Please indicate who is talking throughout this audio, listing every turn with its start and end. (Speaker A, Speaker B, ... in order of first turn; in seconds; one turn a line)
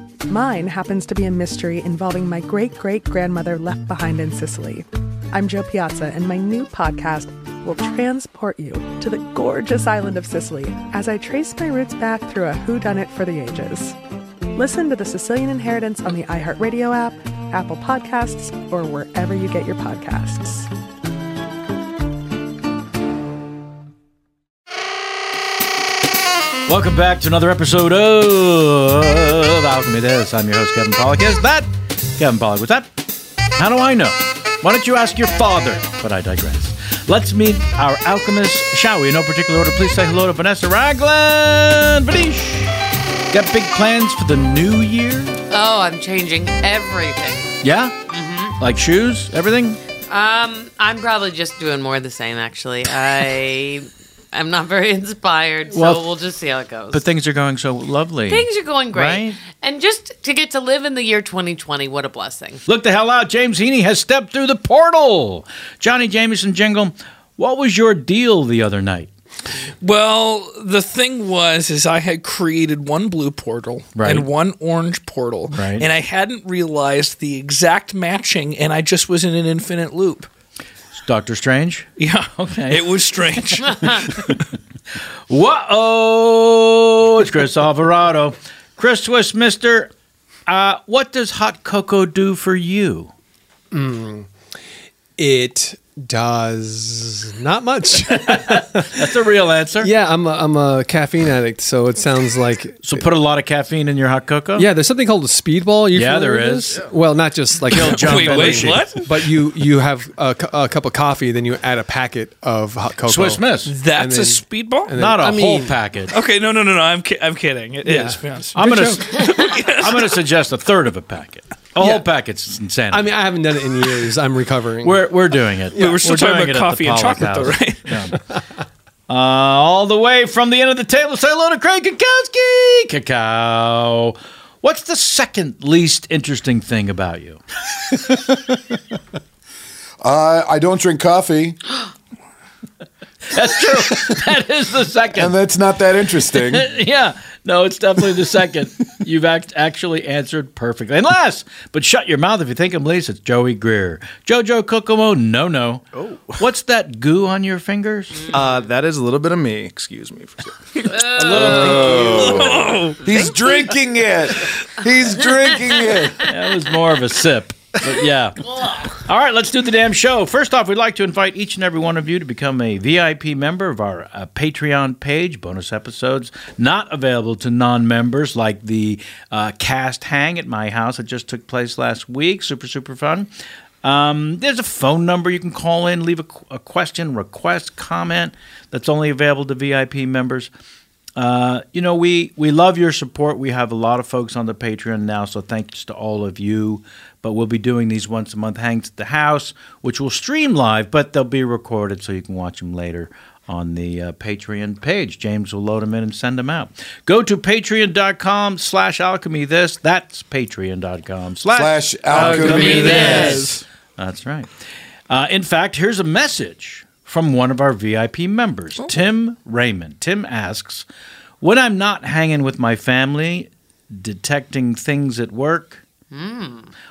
Speaker A: 0.3-13.9
Speaker A: 14.6-20.7
Speaker B: 26.6-33.0
Speaker B: 33.5-45.4
Speaker C: 45.5-47.5
Speaker B: 47.6-48.0
Speaker C: 48.1-48.5
Speaker B: 48.6-49.8
Speaker C: 50.1-57.0
Speaker B: 55.7-56.1
Speaker B: 56.9-59.4
Speaker C: 58.3-62.6
Speaker B: 62.6-69.1
Speaker D: 69.8-80.3
Speaker B: 73.9-74.3
Speaker B: 75.5-75.9
Speaker B: 80.9-84.1
Speaker D: 82.0-84.2
Speaker B: 85.3-89.9
Speaker B: 90.5-93.1
Speaker E: 93.7-94.3
Speaker E: 95.2-99.0
Speaker B: 98.1-99.9
Speaker E: 99.8-103.1
Speaker B: 102.8-104.7
Speaker E: 104.5-115.8
Speaker B: 105.9-106.8
Speaker B: 107.7-108.9
Speaker D: 107.7-109.1
Speaker B: 113.0-113.7
Speaker D: 113.7-114.9
Speaker B: 114.9-116.1
Speaker D: 116.1-120.2
Speaker E: 117.8-119.0
Speaker B: 118.5-123.2
Speaker E: 121.8-122.0
Speaker E: 122.9-125.1
Speaker B: 124.8-128.2
Speaker E: 125.7-126.0
Speaker D: 125.7-128.0
Speaker B: 129.1-137.4
Speaker F: 140.0-141.6
Speaker B: 143.3-145.3
Speaker F: 145.2-146.6
Speaker B: 146.3-158.2
Speaker G: 155.9-156.3
Speaker G: 158.3-160.5
Speaker D: 160.9-163.0
Speaker B: 161.2-162.5
Speaker F: 161.3-166.2
Speaker G: 161.5-162.2
Speaker B: 166.2-183.3
Speaker B: 183.8-190.5
Speaker B: 191.2-214.5
Speaker F: 211.5-213.3
Speaker E: 212.2-213.5
Speaker D: 212.2-213.6
Speaker B: 215.1-220.8
Speaker B: 221.4-225.8
Speaker C: 226.1-226.7